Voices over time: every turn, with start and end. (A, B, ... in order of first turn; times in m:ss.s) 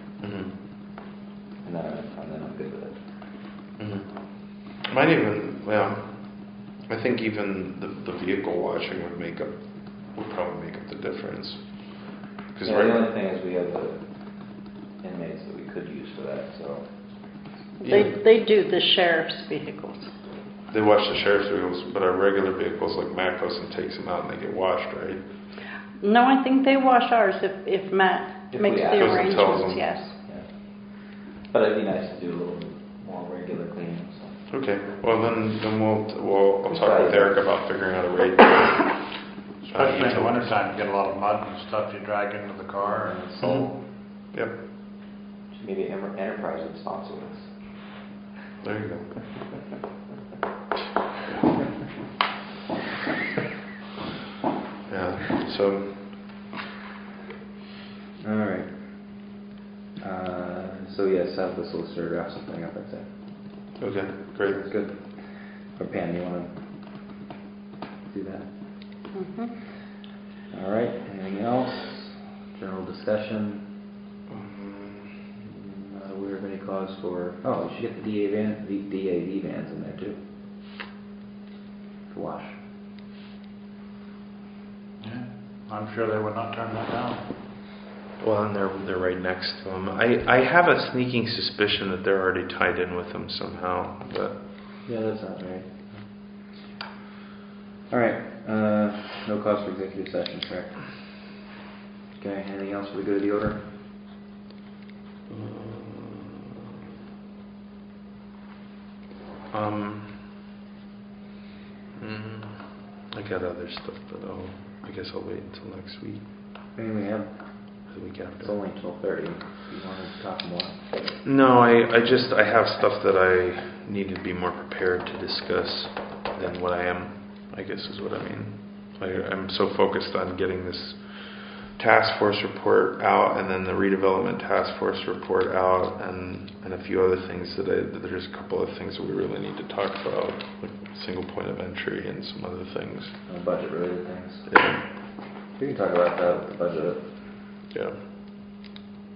0:00.2-0:00.6 A
0:01.6-0:03.1 B
0:03.8-0:13.1 A
0:12.6-0:17.5 B
0:17.8-0:20.1 C
0:17.8-0:18.2 A
0:20.7-0:25.3 A
0:26.0-0:30.2 C
0:28.5-0:29.7 B
0:29.0-0:29.9 A
0:30.2-0:34.5 B
0:34.5-0:40.6 A
0:36.7-0:37.4 B
0:39.6-0:43.2 D
0:42.8-0:43.8 B
0:43.4-0:44.6 A
0:45.5-0:47.9 B
0:48.6-0:49.3 A
0:54.9-0:56.4 A
0:58.2-0:59.4 B
1:00.0-1:03.7 B
1:03.8-1:04.6 A
1:04.4-1:06.5 B
1:08.1-1:08.5 B
1:09.1-1:09.5 C
1:10.5-1:13.7 B
1:14.3-1:15.2 A
1:15.4-1:20.2 B
1:22.1-1:22.6 B
1:25.0-1:27.3 D
1:28.2-1:34.4 A
1:34.8-1:36.7 B
1:37.9-1:41.3 B
1:42.2-1:43.6 B
1:45.3-1:46.5 A
1:49.5-1:50.3 A
1:52.0-1:56.2 A
1:56.8-2:01.0 B
1:57.9-1:58.5 A
2:01.2-2:23.2 A
2:23.3-2:24.5 B
2:24.5-2:24.9 A
2:25.5-2:27.5 B
2:27.7-2:28.0 A